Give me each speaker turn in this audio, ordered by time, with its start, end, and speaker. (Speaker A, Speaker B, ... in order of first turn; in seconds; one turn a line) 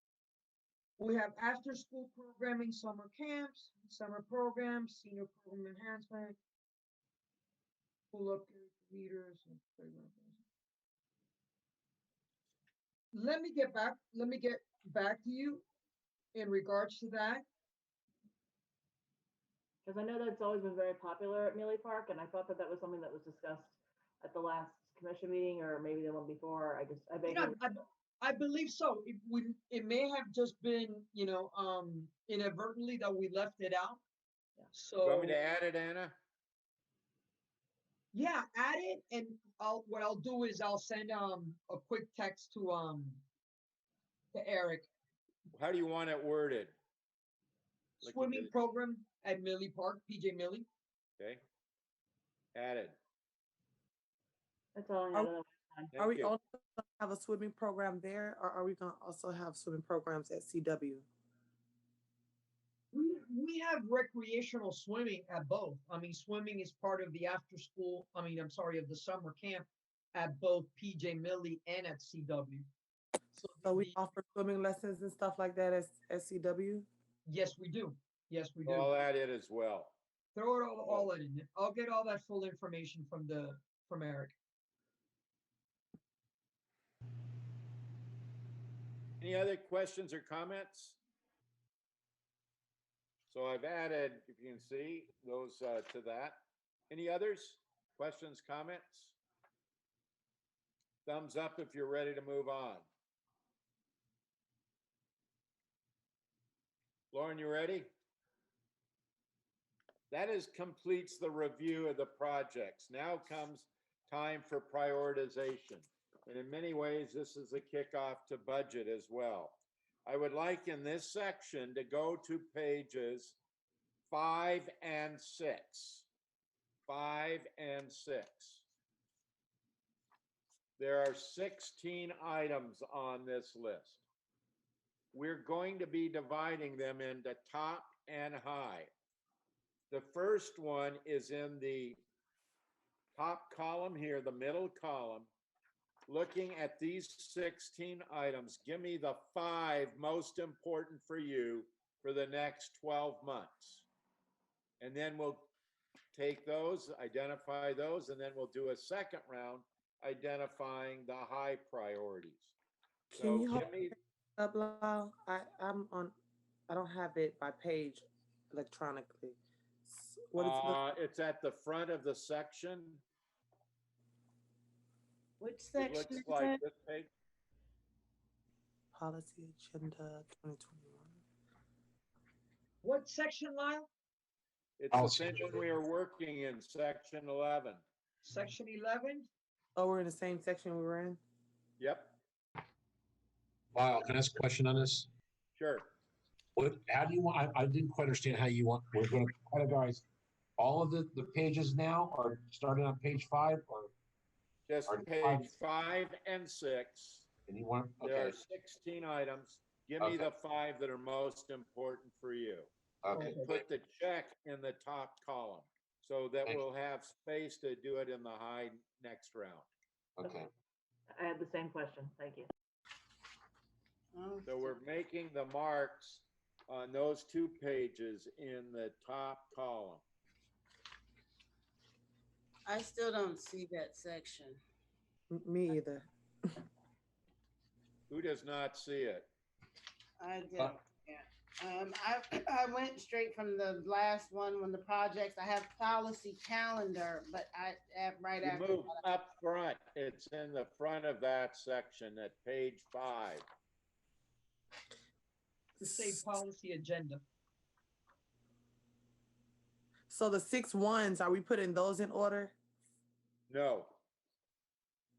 Speaker A: 1.0-6.4
Speaker A: 8.1-10.4
Speaker A: 13.1-15.7
Speaker A: 16.3-17.4
Speaker B: 19.8-27.6
Speaker A: 27.3-34.0
Speaker A: 34.7-35.4
Speaker C: 35.0-36.2
Speaker A: 38.1-43.2
Speaker A: 44.3-44.9
Speaker C: 45.5-46.7
Speaker C: 48.0-48.5
Speaker A: 48.0-50.7
Speaker C: 52.5-53.0
Speaker B: 54.8-55.9
Speaker C: 55.9-56.3
Speaker D: 56.0-61.1
Speaker A: 62.9-72.7
Speaker A: 73.4-73.9
Speaker D: 73.6-76.9
Speaker A: 77.3-78.9
Speaker C: 78.7-79.9
Speaker A: 80.3-84.3
Speaker C: 89.2-91.0
Speaker C: 93.3-99.2
Speaker C: 101.1-102.9
Speaker C: 107.1-107.9
Speaker C: 110.1-123.4
Speaker C: 124.1-126.1
Speaker C: 126.9-128.7
Speaker C: 130.8-134.0
Speaker C: 135.1-138.9
Speaker C: 139.9-142.0
Speaker C: 143.2-145.3
Speaker C: 146.1-153.9
Speaker C: 154.8-155.5
Speaker C: 156.1-162.5
Speaker D: 163.1-163.8
Speaker C: 163.2-163.9
Speaker D: 164.4-166.2
Speaker D: 166.7-170.8
Speaker C: 170.4-173.0
Speaker E: 175.4-176.6
Speaker C: 175.8-177.1
Speaker D: 178.9-181.2
Speaker A: 182.8-183.9
Speaker C: 184.8-187.8
Speaker F: 184.9-185.7
Speaker A: 188.2-189.3
Speaker D: 189.8-191.2
Speaker C: 191.8-192.2
Speaker F: 193.7-195.1
Speaker C: 195.6-195.9
Speaker F: 196.6-200.1
Speaker F: 200.6-203.9
Speaker C: 204.7-207.3
Speaker F: 204.9-205.5
Speaker F: 207.5-208.4
Speaker C: 208.0-212.7
Speaker F: 210.0-210.3
Speaker F: 213.0-213.6
Speaker A: 213.1-213.5
Speaker C: 213.3-219.7
Speaker F: 220.2-220.5
Speaker B: 221.1-222.5
Speaker E: 224.1-224.8
Speaker C: 224.5-230.0
Speaker E: 232.7-234.6
Speaker D: 235.3-236.1
Speaker C: 238.1-239.3
Speaker E: 240.2-249.0
Speaker C: 248.4-253.4
Speaker A: 255.8-257.2
Speaker D: 260.1-262.6
Speaker C: 263.5-264.0